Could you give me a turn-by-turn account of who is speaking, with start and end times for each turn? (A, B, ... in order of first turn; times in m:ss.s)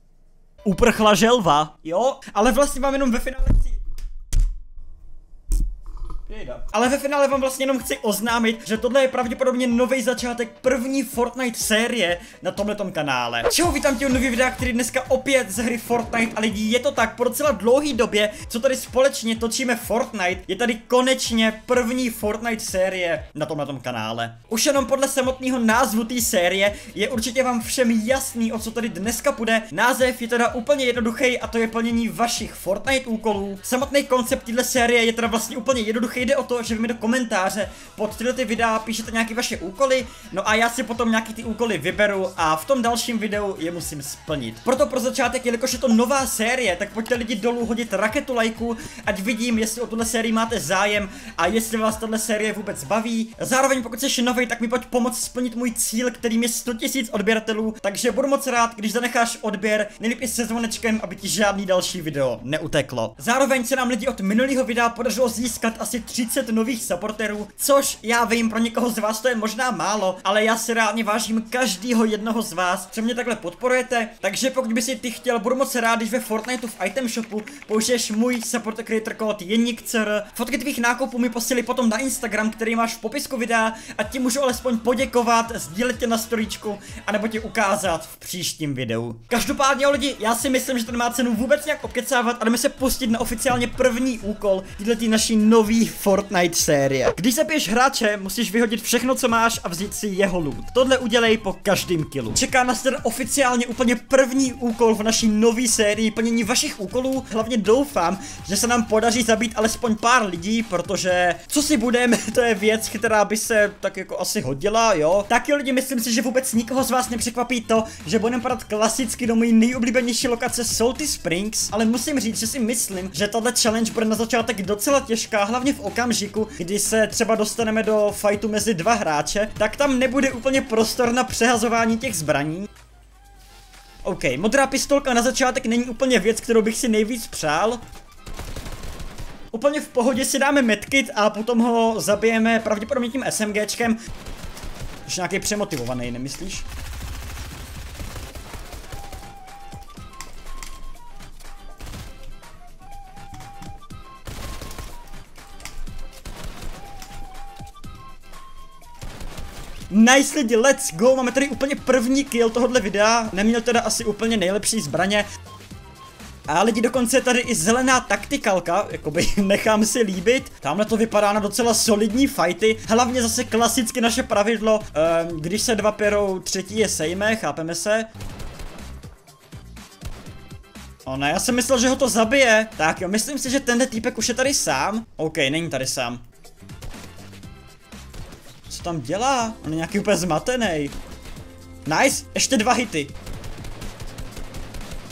0:00.6-0:03.8 A
0:06.3-2:12.7 A
2:14.0-2:17.8 A
2:19.5-2:24.0 A
2:25.1-2:26.6 A
2:39.9-2:45.3 A
2:46.5-2:58.1 A
3:01.0-3:06.2 A
3:08.7-3:10.9 A
3:11.8-3:13.1 A